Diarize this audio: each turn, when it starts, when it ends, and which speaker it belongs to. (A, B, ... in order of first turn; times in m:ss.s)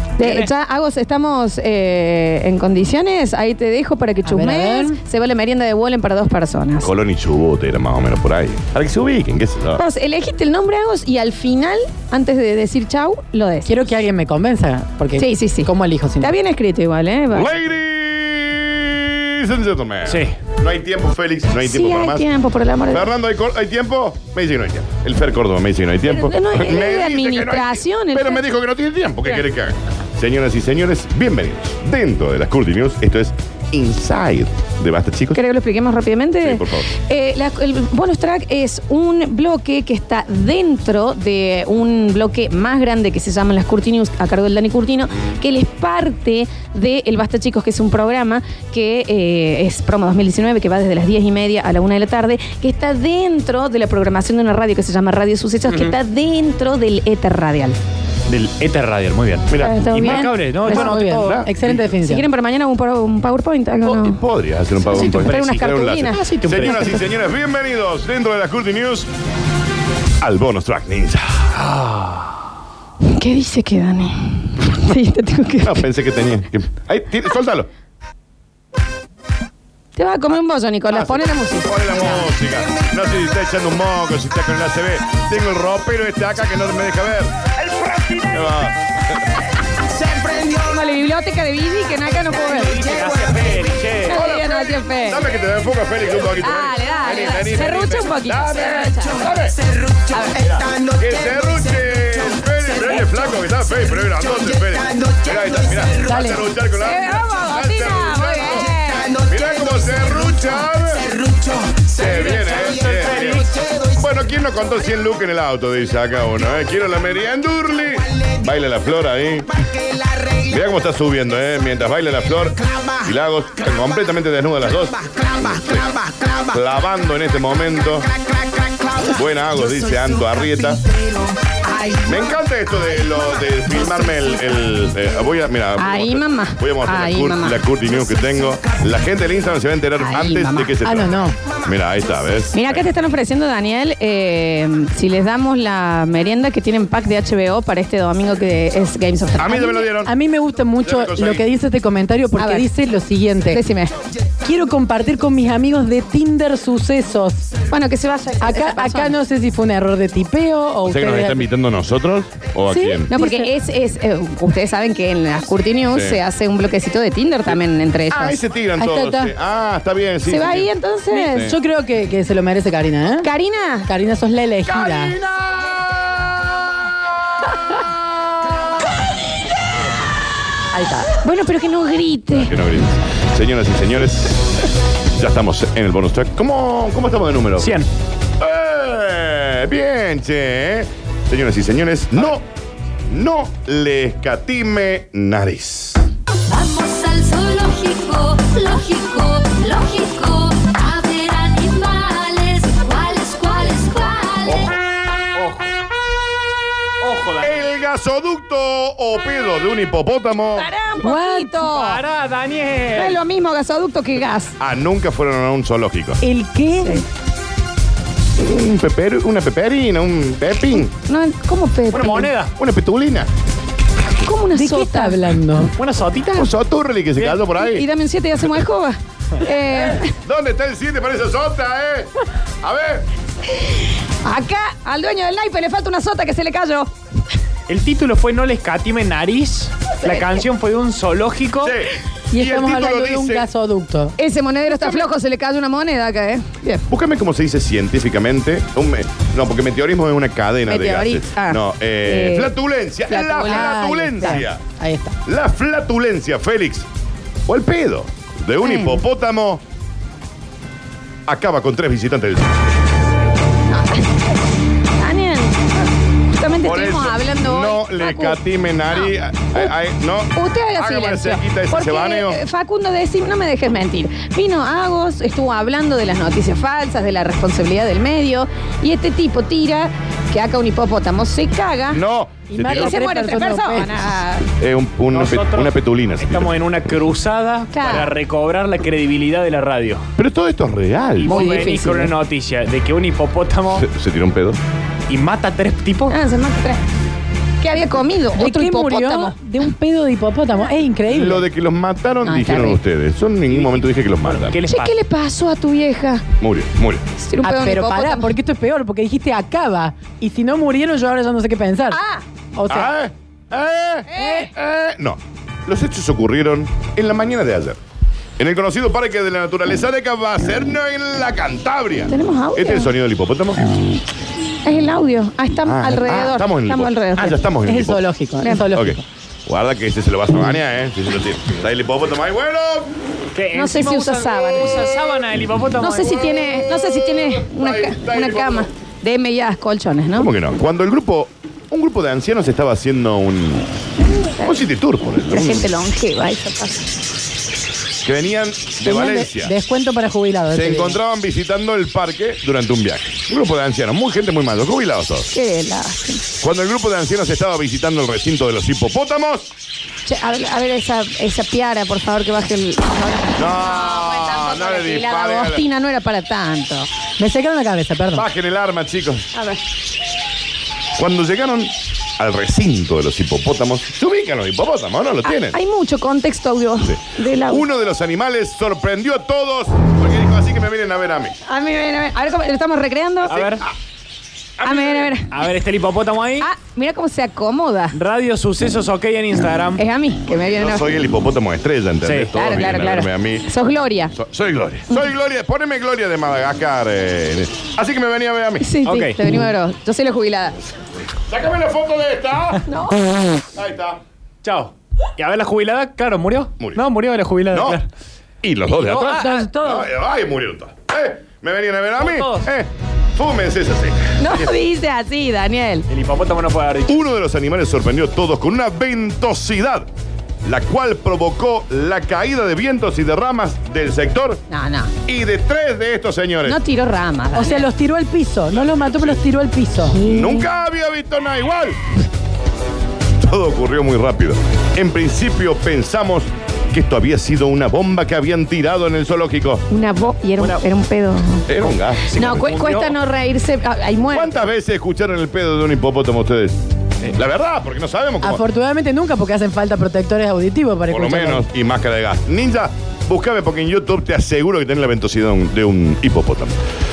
0:00.2-0:06.9 A
0:00.2-0:00.5 B
0:04.2-0:05.0 C
0:06.8-0:09.8 D
0:09.8-0:13.8 A
0:13.6-0:16.3 C
0:15.2-0:17.6 A
0:17.3-0:22.2 D
0:20.1-0:20.4 B
0:21.6-0:23.1 A
0:22.9-0:35.4 D
0:26.1-0:28.4 A
0:35.3-0:57.8 A
0:36.4-0:36.9 D
0:55.7-0:56.0 B
0:58.3-1:01.5 B
0:59.5-1:01.8 D
0:59.5-1:00.9 A
1:00.6-1:02.2 C
1:01.9-1:04.2 A
1:03.8-1:09.1 D
1:04.9-1:07.0 B
1:04.9-1:07.0 A
1:10.2-1:11.5 D
1:11.6-1:12.3 B
1:13.0-1:15.8 A
1:15.6-1:17.7 D
1:20.0-1:22.3 A
1:20.9-1:27.3 D
1:27.6-1:28.3 B
1:28.3-1:29.3 D
1:30.4-1:32.9 A
1:32.5-1:34.2 B
1:34.1-1:35.2 A
1:34.1-1:39.6 D
1:36.4-1:39.3 A
1:40.1-1:40.4 A
1:40.4-1:51.1 D
1:46.0-1:46.5 C
1:46.8-1:49.2 A
1:51.8-1:59.5 D
1:52.0-1:53.5 B
2:00.4-2:05.9 D
2:06.5-2:08.1 D
2:09.0-2:10.8 D
2:12.0-2:22.8 D
2:15.8-2:17.6 A
2:20.0-2:20.8 A
2:20.8-2:21.4 C
2:22.5-2:29.9 A
2:29.4-2:30.1 D
2:30.1-2:33.6 C
2:30.8-2:31.4 D
2:32.4-2:32.7 A
2:33.5-2:34.0 A
2:34.4-2:37.5 C
2:37.7-2:39.2 A
2:38.4-2:41.5 C
2:40.8-2:43.1 D
2:42.7-2:43.5 C
2:43.1-2:48.4 A
2:45.9-2:46.2 D
2:48.1-2:50.7 D
2:48.8-2:49.3 C
2:50.3-2:51.5 A
2:51.1-2:53.3 C
2:51.3-2:51.6 D
2:53.2-2:53.9 A
2:53.9-2:55.1 C
2:54.7-2:56.3 D
3:00.7-3:01.1 C
3:01.2-3:02.6 A
3:02.3-3:04.6 D
3:05.1-3:07.8 D
3:07.6-3:07.9 B
3:08.4-3:12.4 D
3:13.1-3:16.1 D
3:16.5-3:24.6 E
3:24.4-3:24.8 D
3:25.3-3:25.7 B
3:27.0-3:27.7 B
3:27.4-3:30.7 D
3:30.5-3:32.0 A
3:31.0-3:31.7 C
3:31.7-3:33.2 B
3:33.0-3:34.6 A
3:34.6-3:36.2 D
3:36.2-3:37.0 C
3:38.4-3:40.9 D
3:41.0-3:42.3 A
3:41.9-3:42.5 B
3:42.6-3:43.3 D
3:44.2-3:45.2 A
3:44.5-3:45.7 C
3:45.8-3:46.5 B
3:46.4-3:47.9 D
3:47.4-3:50.1 A
3:50.2-3:53.1 D
3:54.2-3:56.9 A
3:57.7-4:01.7 B
4:00.0-4:00.4 A
4:01.6-4:03.5 D
4:02.3-4:04.1 C
4:04.2-4:06.9 A
4:04.7-4:05.1 D
4:06.9-4:14.6 D
4:10.7-4:12.5 A
4:13.1-4:14.4 A
4:13.4-4:15.2 C
4:15.2-4:16.9 D
4:17.5-4:19.6 D
4:18.6-4:19.0 A
4:21.3-4:22.6 D
4:23.7-4:24.4 A
4:25.0-4:28.4 A
4:26.6-4:32.4 D
4:28.9-4:29.7 A
4:30.3-4:42.0 A
4:41.9-4:43.0 D
4:42.5-4:44.2 C
4:42.6-4:44.5 A
4:44.6-4:46.5 D
4:45.1-4:50.0 B
4:47.7-4:48.1 A
4:50.2-4:51.4 D
4:51.2-4:53.9 B
4:51.2-4:52.1 A
4:53.8-4:54.6 D
4:55.1-4:56.2 B
4:56.1-4:56.8 A
4:57.6-4:59.3 A
4:58.3-5:01.5 C
5:01.1-5:04.6 D
5:02.2-5:02.8 A
5:03.5-5:05.0 B
5:04.7-5:06.2 A
5:06.4-5:07.0 D
5:07.2-5:08.3 A
5:07.4-5:12.0 C
5:11.9-5:12.2 A
5:12.5-5:12.9 C
5:12.7-5:17.8 D
5:14.1-5:14.5 A
5:14.2-5:14.5 C
5:18.4-5:23.8 D
5:22.1-5:22.9 A
5:24.6-5:27.4 A
5:25.6-5:28.0 D
5:27.6-5:29.0 C
5:28.4-5:28.7 A
5:28.7-5:32.9 D
5:33.3-5:36.3 B
5:33.5-5:34.9 A
5:35.8-5:40.3 A
5:36.1-5:38.7 D
5:40.2-5:43.7 D
5:44.4-5:45.7 D
5:45.3-5:46.9 A
5:48.0-5:49.5 D
5:48.8-5:51.0 C
5:50.5-5:55.3 D
5:55.3-5:56.2 A
5:56.4-5:59.5 D
6:00.0-6:06.9 A
6:03.4-6:05.6 D
6:07.2-6:08.2 C
6:08.1-6:09.3 D
6:09.3-6:09.6 A
6:11.0-6:15.6 D
6:15.2-6:17.6 A
6:16.8-6:21.4 D
6:21.5-6:23.5 A
6:23.2-6:23.6 B
6:24.6-6:25.2 D
6:24.6-6:25.3 A
6:25.3-6:26.5 B
6:26.4-6:28.0 A
6:27.9-6:29.8 B
6:29.8-6:30.9 A
6:30.6-6:33.5 D
6:32.0-6:32.3 B
6:32.3-6:34.1 A
6:34.2-6:38.7 D
6:38.6-6:40.6 A
6:38.8-6:39.4 B
6:41.3-6:42.6 D
6:42.7-6:43.1 A
6:43.5-6:44.0 D
6:44.4-6:47.9 B
6:47.5-6:47.8 D
6:48.4-6:54.4 D
6:48.8-6:49.4 B
6:49.0-6:49.9 C
6:52.0-6:52.5 B
6:54.2-6:55.9 A
6:55.9-6:57.0 B
6:56.9-6:59.9 D
7:00.4-7:04.4 D
7:04.5-7:04.9 A
7:05.0-7:06.6 D
7:06.5-7:07.7 A
7:07.3-7:10.0 C
7:09.9-7:10.5 A
7:10.0-7:11.8 D
7:13.2-7:19.6 D
7:19.7-7:21.5 A
7:21.5-7:22.5 D
7:22.1-7:23.0 B
7:22.2-7:24.4 A
7:24.1-7:26.6 D
7:27.1-7:28.4 D
7:28.2-7:31.5 C
7:30.9-7:36.6 D